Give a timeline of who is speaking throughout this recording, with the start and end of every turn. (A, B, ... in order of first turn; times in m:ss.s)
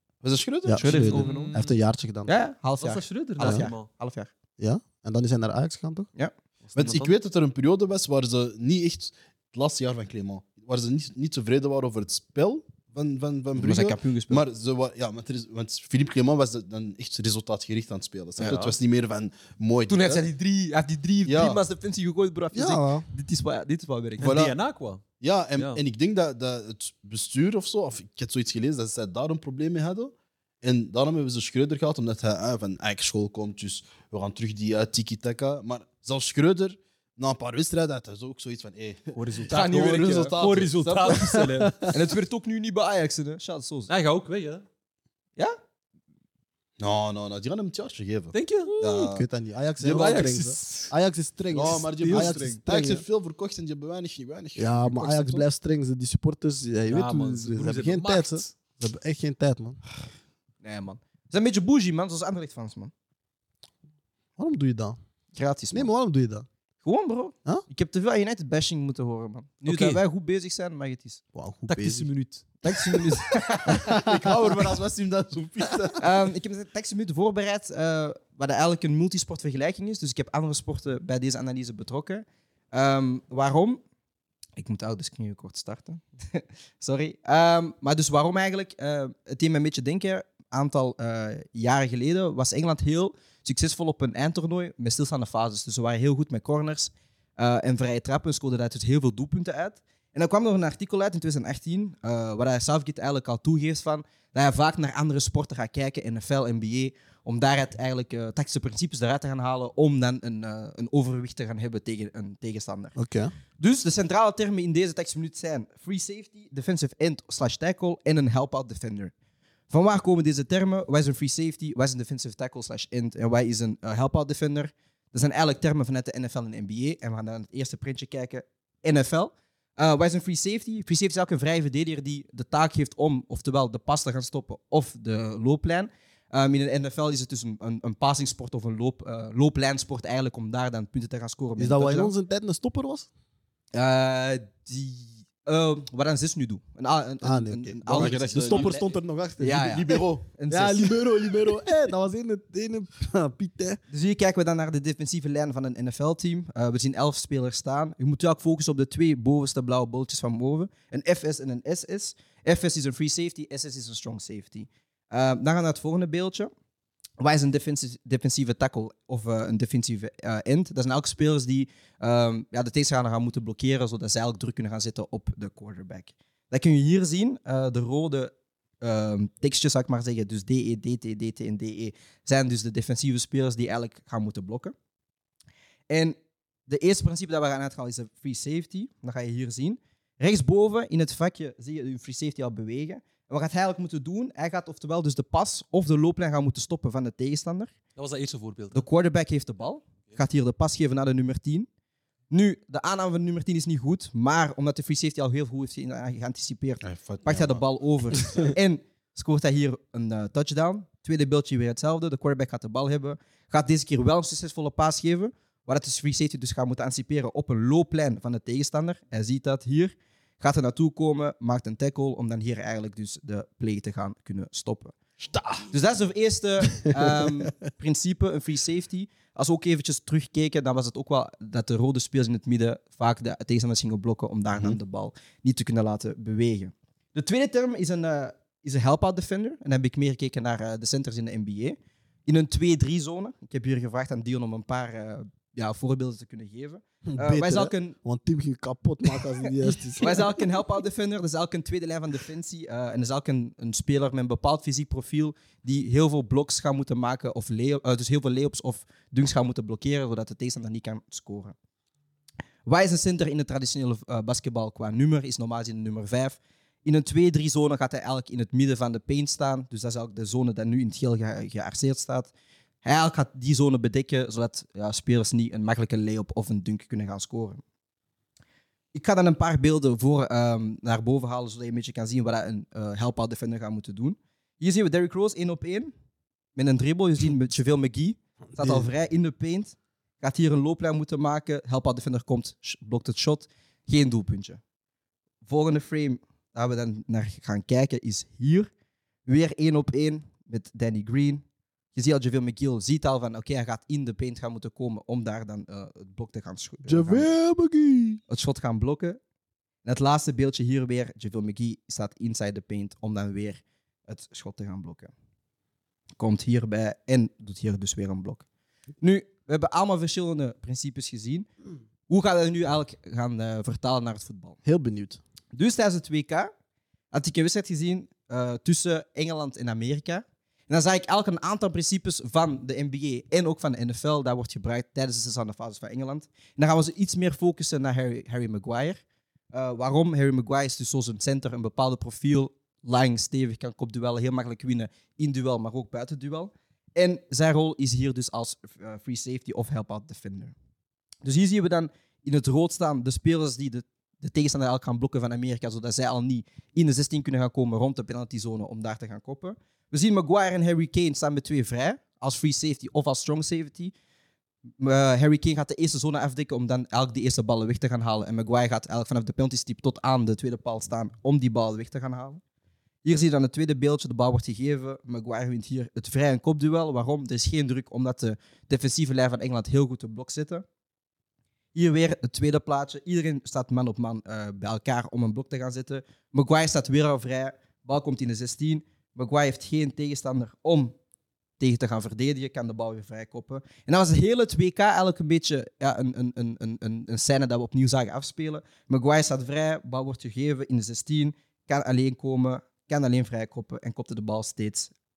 0:00.2-0:01.3 A
0:00.6-0:02.3 B
0:00.8-0:01.6 C
0:00.9-0:01.7 D
0:02.3-0:04.3 C
0:02.8-0:03.9 D
0:03.4-0:03.7 B
0:04.6-0:06.1 B
0:06.6-0:07.2 D
0:06.8-0:20.2 A
0:13.6-0:14.4 C
0:18.4-0:18.8 D
0:19.9-0:24.3 C
0:21.3-0:21.6 A
0:22.5-0:23.1 B
0:24.2-0:25.0 D
0:24.2-0:24.6 A
0:25.2-0:41.4 A
0:25.6-0:25.8 D
0:39.2-0:39.8 D
0:39.5-0:40.4 C
0:40.4-0:41.8 D
0:41.2-0:41.9 B
0:41.9-0:43.9 C
0:43.9-0:44.6 D
0:46.8-0:49.3 A
0:48.3-0:49.1 D
0:48.8-0:53.0 B
0:49.8-0:50.3 A
0:49.8-0:50.9 D
0:51.5-0:55.4 A
0:52.0-0:52.4 D
0:54.6-0:59.8 B
0:56.9-0:58.5 D
1:00.6-1:02.9 C
1:04.4-1:05.0 B
1:05.3-1:05.9 C
1:05.7-1:06.5 B
1:06.8-1:11.2 C
1:09.6-1:10.0 D
1:11.3-1:12.1 B
1:11.7-1:12.4 D
1:12.6-1:14.0 C
1:13.7-1:14.5 B
1:13.8-1:16.1 A
1:16.0-1:23.8 C
1:24.6-1:53.0 C
1:53.0-1:53.3 B
1:53.6-1:59.1 C
1:59.7-2:22.1 C
2:21.6-2:23.1 B
2:23.7-2:28.9 C
2:27.2-2:33.8 B
2:27.9-2:28.8 A
2:29.4-2:31.0 C
2:29.5-2:30.2 A
2:33.9-2:46.5 C
2:47.2-3:04.7 C
3:05.9-3:06.2 C
3:06.7-3:17.7 C
3:18.0-3:18.9 D
3:18.7-3:21.7 C
3:22.3-3:45.0 C
3:26.8-3:28.5 A
3:45.2-3:45.7 A
3:45.7-4:08.0 C
4:07.1-4:10.4 B
4:10.0-4:21.6 C
4:22.7-4:32.3 C
4:32.8-4:37.6 C
4:38.9-4:45.9 C
4:46.6-4:54.6 C
4:48.6-4:48.9 B
4:55.4-4:58.7 C
4:59.3-5:07.3 C
5:06.8-5:08.2 B
5:08.3-5:09.2 C
5:09.8-5:15.1 C
5:16.2-5:18.4 C
5:19.0-5:21.5 C
5:22.1-5:24.6 C
5:24.6-5:25.2 B
5:25.5-5:26.5 C
5:27.1-5:39.0 C
5:39.5-5:50.6 C
5:51.2-6:03.9 C
6:04.8-6:12.4 C
6:13.0-6:20.6 C
6:21.8-6:31.0 C
6:31.6-6:44.9 C